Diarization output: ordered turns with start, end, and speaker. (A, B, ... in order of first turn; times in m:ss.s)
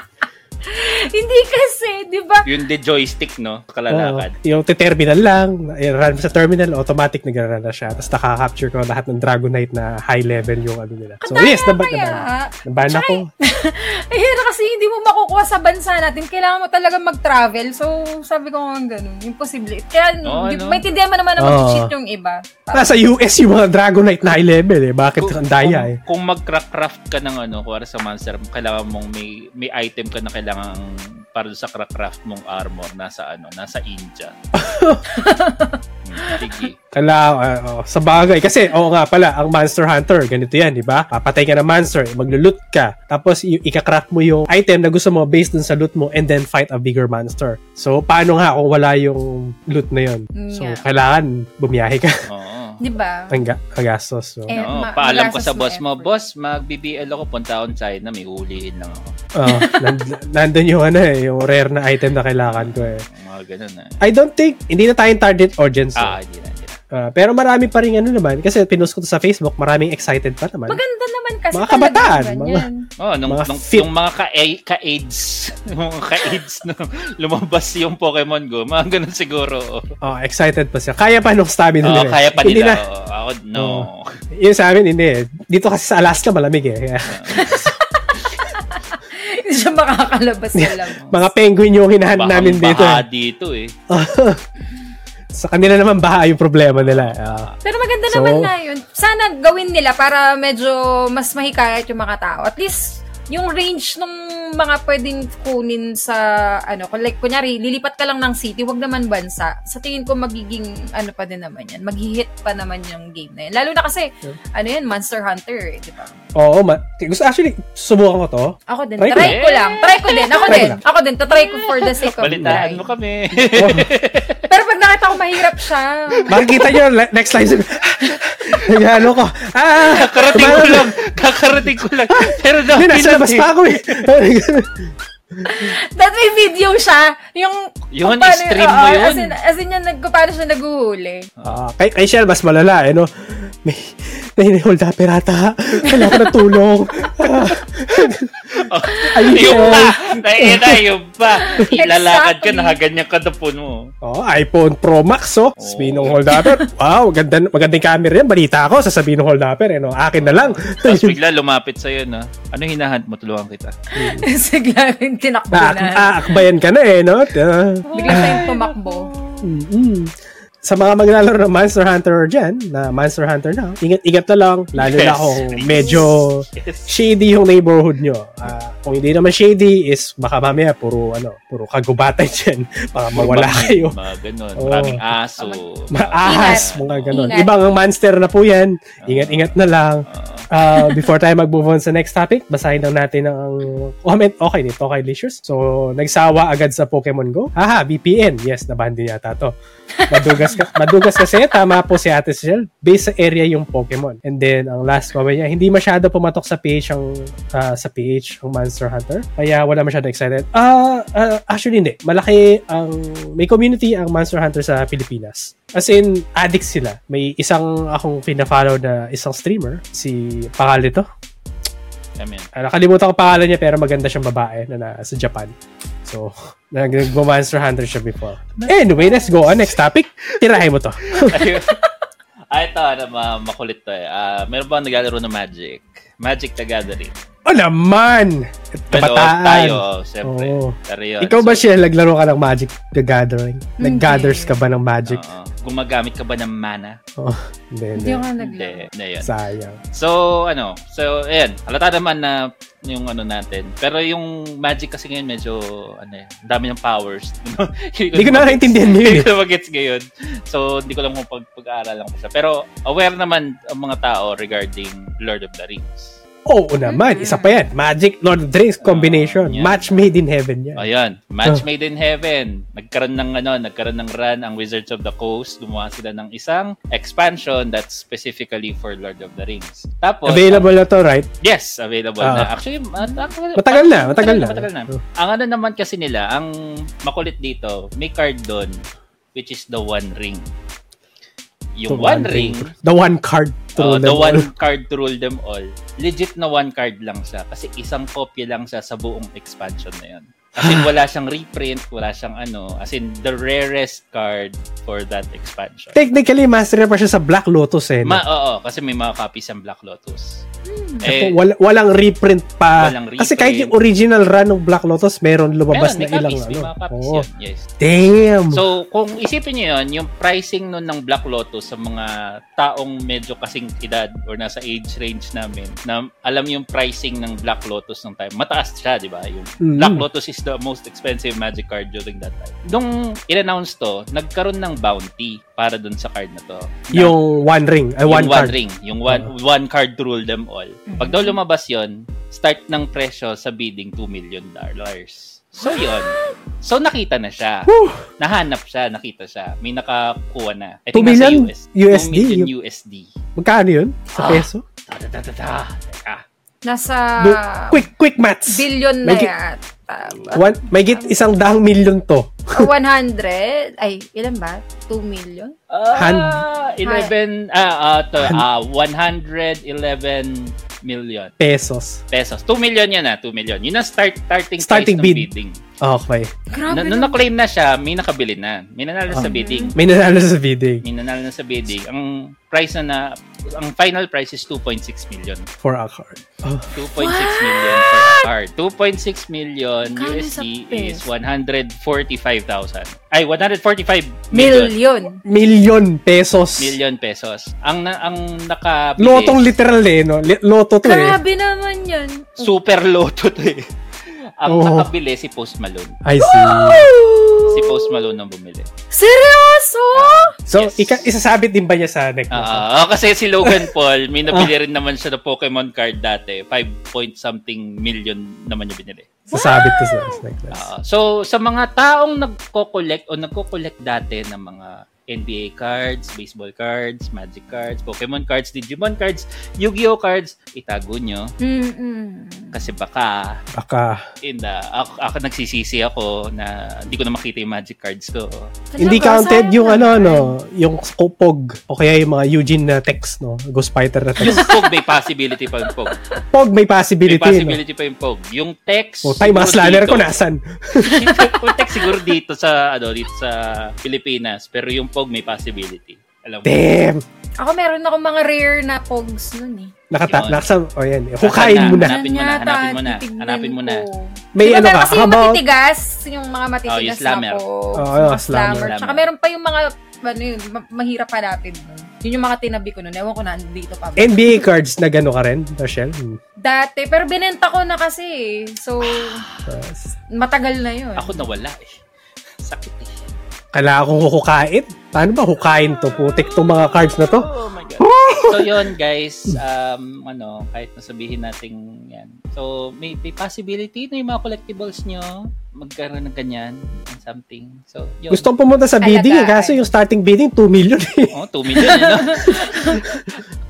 0:00.6-0:02.5 A
0:02.4-0:04.3 B
0:03.9-0:13.3 C
0:11.2-0:23.0 A
0:20.2-0:20.8 B
0:21.4-0:21.9 C
0:22.7-0:26.0 C
0:25.2-0:34.3 B
0:34.5-0:35.0 C
0:35.1-0:36.7 A
0:36.0-0:36.8 B
0:36.9-0:52.2 C
0:50.4-0:50.8 A
0:52.3-0:52.8 B
0:52.8-0:53.3 A
0:53.3-0:54.5 C
0:54.5-0:56.1 A
0:54.5-0:59.1 B
0:59.3-1:03.0 C
0:59.4-1:00.0 A
1:02.5-1:04.0 B
1:04.0-1:06.2 C
1:06.0-1:06.8 B
1:06.9-1:10.8 C
1:10.7-1:12.8 A
1:11.5-1:12.6 C
1:13.0-1:19.8 B
1:13.3-1:13.9 C
1:20.0-1:22.8 C
1:21.8-1:24.1 B
1:23.6-1:27.7 C
1:27.0-1:27.4 B
1:27.3-1:31.2 A
1:30.5-1:33.0 C
1:32.1-1:33.7 B
1:33.9-1:34.4 C
1:35.3-1:37.5 C
1:36.8-1:37.6 B
1:37.6-1:56.2 A
1:38.1-1:38.5 C
1:56.3-1:59.4 C
1:58.7-2:02.9 A
1:59.2-2:00.8 B
2:00.5-2:00.8 C
2:01.3-2:04.5 B
2:02.2-2:02.7 C
2:03.4-2:03.9 C
2:04.5-2:06.7 A
2:06.2-2:06.5 B
2:06.3-2:10.9 C
2:08.4-2:08.8 B
2:09.8-2:14.1 B
2:12.1-2:14.9 C
2:15.4-2:21.3 A
2:17.9-2:19.4 B
2:21.4-2:28.3 C
2:25.8-2:26.4 A
2:28.5-2:33.9 B
2:29.1-2:29.9 A
2:29.1-2:30.8 C
2:31.4-2:32.8 A
2:34.0-2:41.2 C
2:35.6-2:36.4 B
2:36.3-2:36.6 A
2:40.1-2:43.8 B
2:43.9-2:46.4 A
2:44.0-2:44.2 C
2:45.5-2:48.4 C
2:47.9-2:49.5 B
2:47.9-2:49.1 A
2:49.4-3:04.0 C
2:54.8-2:56.9 B
2:55.7-2:56.0 A
3:03.1-3:07.3 B
3:04.6-3:05.0 C
3:05.9-3:19.5 C
3:06.2-3:07.5 A
3:09.0-3:10.5 B
3:10.7-3:11.0 A
3:20.0-3:21.5 A
3:20.1-3:41.0 C
3:42.2-3:42.5 B
3:42.5-3:51.5 C
3:48.5-3:49.8 B
3:50.4-3:51.8 B
3:52.5-3:57.2 B
3:57.4-4:05.2 C
3:58.9-4:01.7 B
4:03.8-4:04.5 A
4:05.1-4:07.0 B
4:07.2-4:08.3 C
4:07.9-4:08.9 A
4:08.4-4:09.3 B
4:09.2-4:09.8 C
4:09.9-4:26.2 B
4:18.1-4:19.3 C
4:26.5-4:30.8 C
4:26.8-4:27.6 A
4:28.8-4:30.1 B
4:30.8-4:40.7 B
4:40.3-4:41.3 C
4:41.4-4:46.5 B
4:42.2-4:42.5 C
4:43.6-4:45.0 C
4:47.0-4:48.8 B
4:49.3-4:50.5 B
4:51.8-4:52.7 B
4:51.9-4:54.5 C
4:53.8-5:06.0 B
5:00.6-5:00.9 C
5:05.9-5:08.2 C
5:08.0-5:10.4 B
5:10.6-5:11.1 A
5:11.0-5:11.4 B
5:11.0-5:17.2 C
5:12.8-5:13.7 B
5:15.7-5:17.7 B
5:17.8-5:18.6 C
5:18.5-5:37.2 B
5:29.6-5:30.0 C
5:36.9-5:38.6 C
5:38.1-5:53.1 B
5:40.9-5:41.4 A
5:47.7-5:48.0 C
5:50.9-5:52.5 C
5:53.4-5:54.6 C
5:54.2-5:56.2 B
5:56.6-5:57.9 A
5:57.2-5:59.3 C
5:58.5-6:01.2 A
6:00.3-6:02.7 C
6:02.5-6:05.5 A
6:05.7-6:11.3 B
6:05.9-6:06.4 C
6:06.8-6:07.1 A
6:11.4-6:12.0 C
6:12.1-6:15.6 B
6:14.6-6:15.3 C
6:15.8-6:16.3 C
6:16.5-6:17.2 A
6:16.7-6:19.8 B
6:19.1-6:20.8 C
6:19.2-6:19.7 A
6:20.8-6:25.5 B
6:25.6-6:26.7 C
6:26.7-6:34.7 B
6:27.0-6:28.3 A
6:29.8-6:31.0 A
6:34.3-6:35.2 A
6:35.2-6:36.8 C
6:36.6-6:39.5 B
6:39.0-6:41.2 C
6:40.8-6:42.5 A
6:42.4-6:46.0 B
6:44.4-6:44.9 C
6:46.0-6:46.9 C
6:46.2-6:48.1 A
6:47.4-6:48.7 B
6:48.9-6:50.3 A
6:49.9-6:51.0 B
6:50.5-6:52.7 C
6:52.3-6:59.1 B
6:53.4-6:53.7 C
6:59.3-7:00.2 A
6:59.3-7:00.7 C
7:00.5-7:11.3 B
7:11.4-7:12.6 A
7:12.5-7:13.4 B
7:13.5-7:14.0 C
7:14.2-7:18.5 B
7:18.7-7:20.3 A
7:18.8-7:24.5 C
7:24.2-7:26.0 B
7:24.3-7:24.8 A
7:26.3-7:27.6 C
7:27.0-7:30.1 B
7:29.0-7:31.4 C
7:30.8-7:36.7 B
7:36.4-7:37.0 C
7:37.4-7:39.7 A
7:39.9-7:41.9 C
7:40.1-7:40.4 B
7:41.2-7:43.8 B
7:41.5-7:54.4 A
7:44.3-7:45.4 C
7:46.7-7:47.4 B
7:47.8-7:48.7 C
7:48.4-7:49.1 B
7:54.0-7:56.2 C
7:56.4-7:59.2 A
7:58.8-7:59.4 B
7:59.5-7:59.9 C
8:00.1-8:01.2 A
8:01.0-8:01.7 B
8:02.4-8:02.9 B
8:03.5-8:08.6 C
8:05.4-8:18.3 B
8:18.1-8:21.7 C
8:18.8-8:19.7 A
8:21.1-8:22.6 B
8:21.5-8:23.0 A
8:22.2-8:23.0 C